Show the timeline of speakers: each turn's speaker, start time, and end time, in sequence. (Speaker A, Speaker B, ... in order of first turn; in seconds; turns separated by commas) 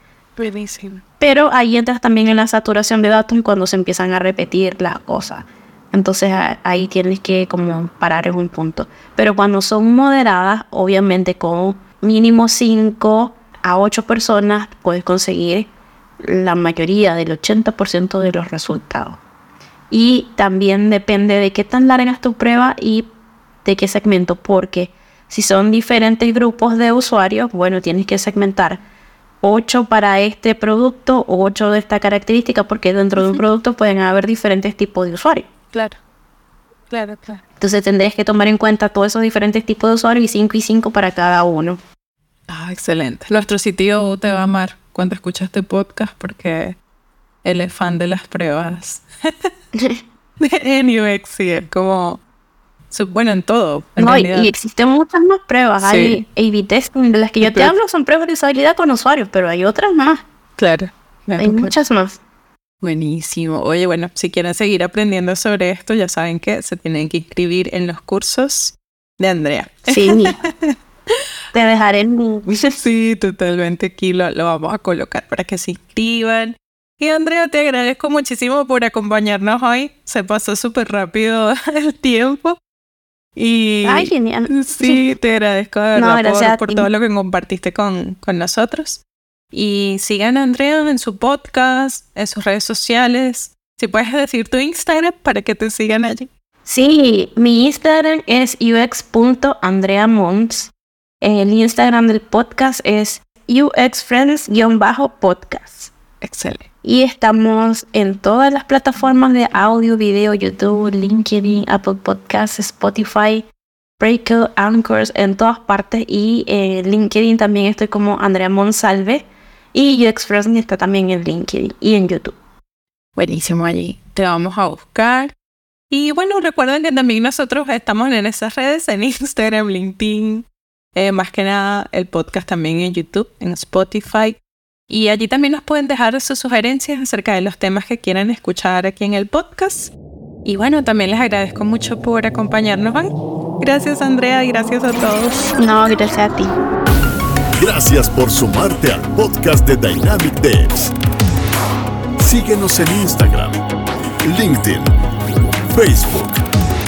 Speaker A: 0.4-1.0, Speaker B: 1.2-15.7, Speaker B: 16.2-19.2, Speaker B: 19.9-23.1, Speaker B: 23.6-28.8, Speaker B: 29.4-35.5, Speaker A: 35.7-36.0, Speaker A: 36.9-37.4, Speaker B: 37.6-41.8, Speaker A: 42.5-46.8, Speaker A: 47.4-49.5, Speaker B: 49.8-50.0, Speaker A: 50.4-52.2, Speaker A: 52.9-54.5, Speaker B: 54.0-60.2, Speaker A: 55.8-56.2, Speaker A: 57.4-57.8, Speaker A: 60.6-61.7, Speaker B: 61.4-62.2, Speaker A: 62.8-70.8, Speaker B: 69.9-70.4, Speaker B: 71.5-72.7, Speaker A: 72.7-82.6, Speaker A: 83.4-89.0, Speaker B: 83.8-85.0, Speaker B: 86.0-86.9, Speaker A: 89.5-96.3, Speaker B: 96.7-100.7, Speaker B: 101.2-105.9, Speaker A: 106.2-106.7, Speaker B: 106.8-113.5, Speaker B: 114.0-122.4, Speaker A: 123.2-125.3, Speaker A: 125.9-134.4, Speaker A: 134.9-139.9, Speaker A: 140.4-145.6, Speaker B: 145.6-146.6, Speaker C: 147.6-150.9, Speaker C: 152.2-153.6, Speaker C: 154.2-154.9, Speaker C: 155.7-156.4